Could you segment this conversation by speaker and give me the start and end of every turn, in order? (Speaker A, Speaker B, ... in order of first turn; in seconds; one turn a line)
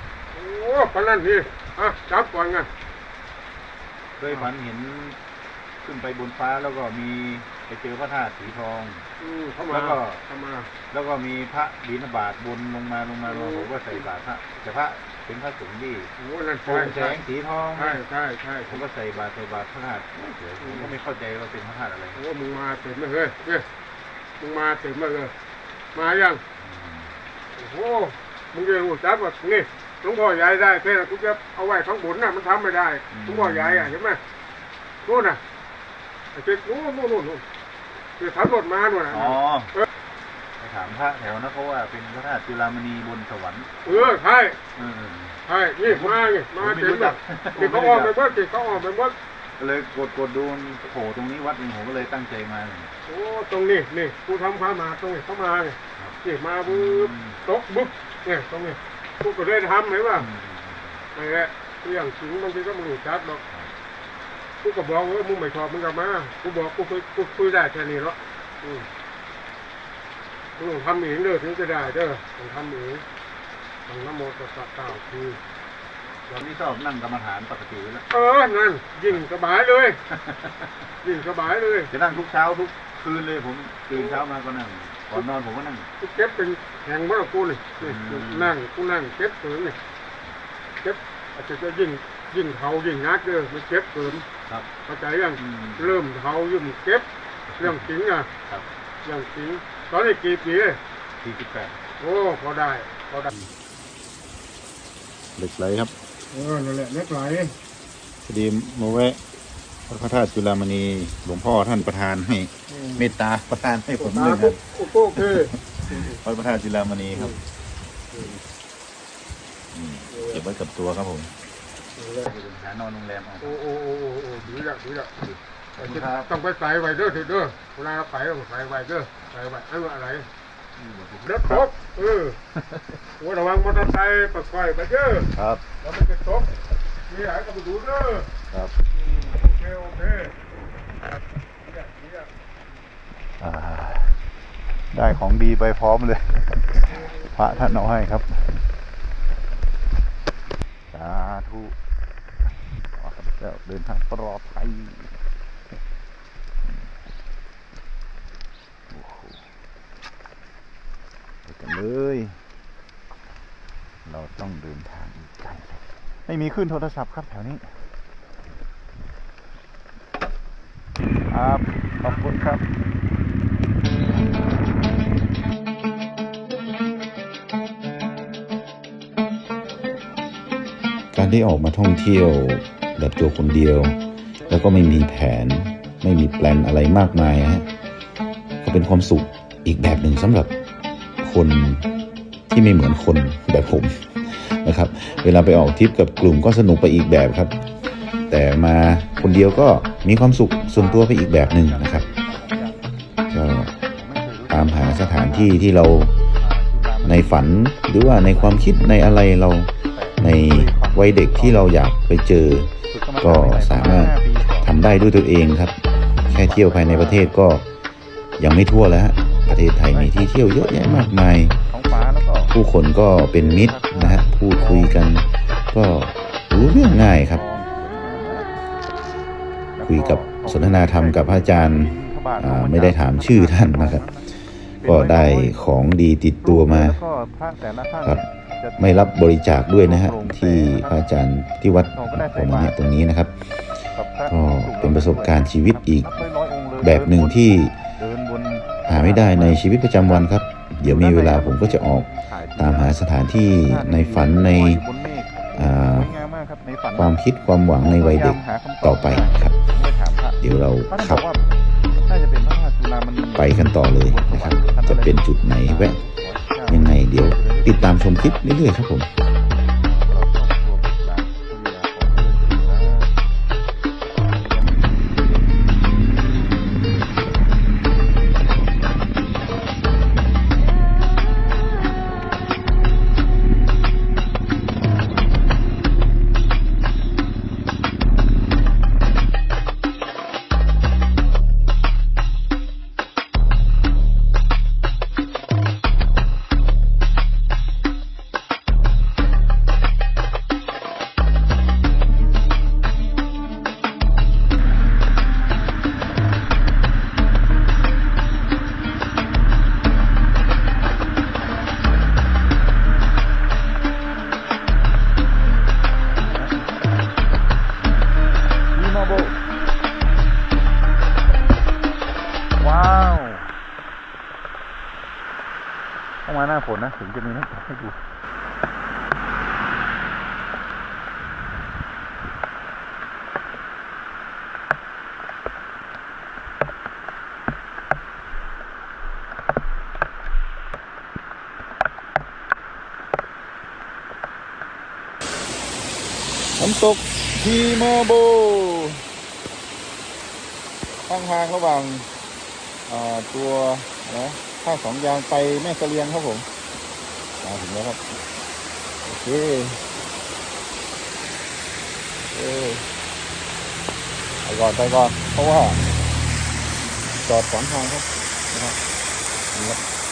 Speaker A: 0.3-2.7
Speaker B: 4.2-5.2
Speaker B: 5.8-9.1
Speaker A: 9.2-10.7
Speaker B: 9.7-10.2
Speaker B: 10.9-16.1
Speaker A: 13.3-13.8
Speaker A: 16.2-17.2
Speaker B: 16.7-18.0
Speaker A: 17.8-18.8
Speaker B: 18.7-22.2
Speaker A: 20.6-20.9
Speaker A: 22.2-23.7
Speaker A: 24.4-25.3
Speaker A: 25.9-26.4
Speaker B: 26.6-27.1
Speaker A: 27.6-34.2
Speaker B: 33.1-34.0
Speaker A: 35.0-35.4
Speaker A: 36.3-37.4
Speaker A: 38.2-39.9
Speaker B: 39.1-39.7
Speaker B: 40.6-44.1
Speaker A: 43.9-44.6
Speaker B: 44.8-48.1
Speaker A: 45.5-49.1
Speaker B: 49.6-52.9
Speaker A: 53.1-60.3
Speaker B: 56.0-57.4
Speaker B: 60.2-61.0
Speaker A: 61.1-63.4
Speaker A: 64.6-68.9
Speaker A: 70.6-73.0
Speaker A: 73.9-75.4
Speaker B: 76.3-78.1
Speaker A: 78.1-80.0
Speaker B: 80.1-80.7
Speaker A: 81.0-81.9
Speaker B: 81.9-85.9
Speaker A: 83.9-84.2
Speaker A: 86.0-89.8
Speaker B: 87.8-88.5
Speaker A: 90.8-94.3
Speaker A: 94.9-97.1
Speaker B: 95.4-96.0
Speaker B: 97.6-97.8
Speaker A: 97.6-98.3
Speaker A: 99.0-100.8
Speaker B: 101.2-101.8
Speaker A: 102.0-103.3
Speaker C: 105.4-105.9
Speaker A: 106.3-107.5
Speaker B: 108.3-109.1
Speaker C: 108.6-109.1
Speaker C: 109.9-112.5
Speaker B: 111.5-114.6
Speaker C: 113.0-114.4
Speaker A: 114.0-116.2
Speaker C: 116.0-117.3
Speaker C: 119.8-121.3
Speaker A: 120.1-120.4
Speaker A: 122.0-122.3
Speaker B: 122.2-123.6
Speaker A: 123.4-125.1
Speaker B: 125.2-126.3
Speaker A: 125.8-130.3
Speaker B: 130.8-131.7
Speaker A: 131.3-132.4
Speaker B: 132.6-133.0
Speaker A: 133.2-136.5
Speaker B: 135.4-135.6
Speaker A: 137.1-138.3
Speaker A: 139.0-140.3
Speaker A: 141.6-142.3
Speaker B: 143.4-144.2
Speaker B: 144.9-148.3
Speaker B: 150.9-151.8
Speaker B: 153.0-155.1
Speaker B: 158.9-159.4
Speaker B: 161.5-162.4
Speaker B: 164.1-167.7
Speaker B: 171.3-172.7
Speaker C: 181.1-184.0
Speaker C: 184.5-187.7
Speaker C: 188.6-190.5
Speaker C: 191.2-191.9
Speaker C: 192.5-197.6
Speaker C: 198.3-202.1
Speaker B: 200.7-202.8
Speaker C: 203.3-203.7
Speaker B: 203.8-205.6
Speaker C: 204.5-206.1
Speaker B: 206.3-207.5
Speaker C: 207.1-215.8
Speaker B: 208.2-208.9
Speaker B: 209.9-211.7
Speaker B: 212.9-214.7
Speaker C: 216.3-217.7
Speaker B: 216.3-217.3
Speaker C: 218.4-221.6
Speaker B: 219.8-221.1
Speaker B: 221.6-222.5
Speaker C: 222.5-227.4
Speaker B: 223.3-224.9
Speaker B: 226.9-228.5
Speaker B: 229.8-234.3
Speaker C: 229.9-234.1
Speaker B: 234.8-235.6
Speaker C: 234.8-237.0
Speaker B: 236.4-241.0
Speaker C: 238.8-243.3
Speaker B: 241.9-242.8
Speaker B: 243.9-249.6
Speaker C: 244.3-246.1
Speaker C: 246.8-247.7
Speaker C: 248.9-254.8
Speaker B: 250.8-253.0
Speaker B: 253.6-257.1
Speaker C: 255.6-256.2
Speaker C: 257.0-259.6
Speaker B: 257.8-261.4
Speaker C: 260.4-261.2
Speaker B: 262.1-268.5
Speaker C: 263.4-266.0
Speaker C: 266.7-269.1
Speaker B: 269.8-273.1
Speaker B: 274.3-274.9
Speaker B: 316.2-317.1
Speaker B: 318.7-319.4
Speaker B: 322.6-323.5
Speaker B: 326.3-328.0
Speaker B: 346.6-349.0
Speaker B: 351.1-352.1
Speaker B: 352.9-356.5
Speaker B: 357.4-358.0
Speaker B: 359.0-359.8
Speaker B: 362.3-362.9
Speaker B: 364.4-365.8
Speaker B: 367.2-368.8
Speaker B: 369.5-369.8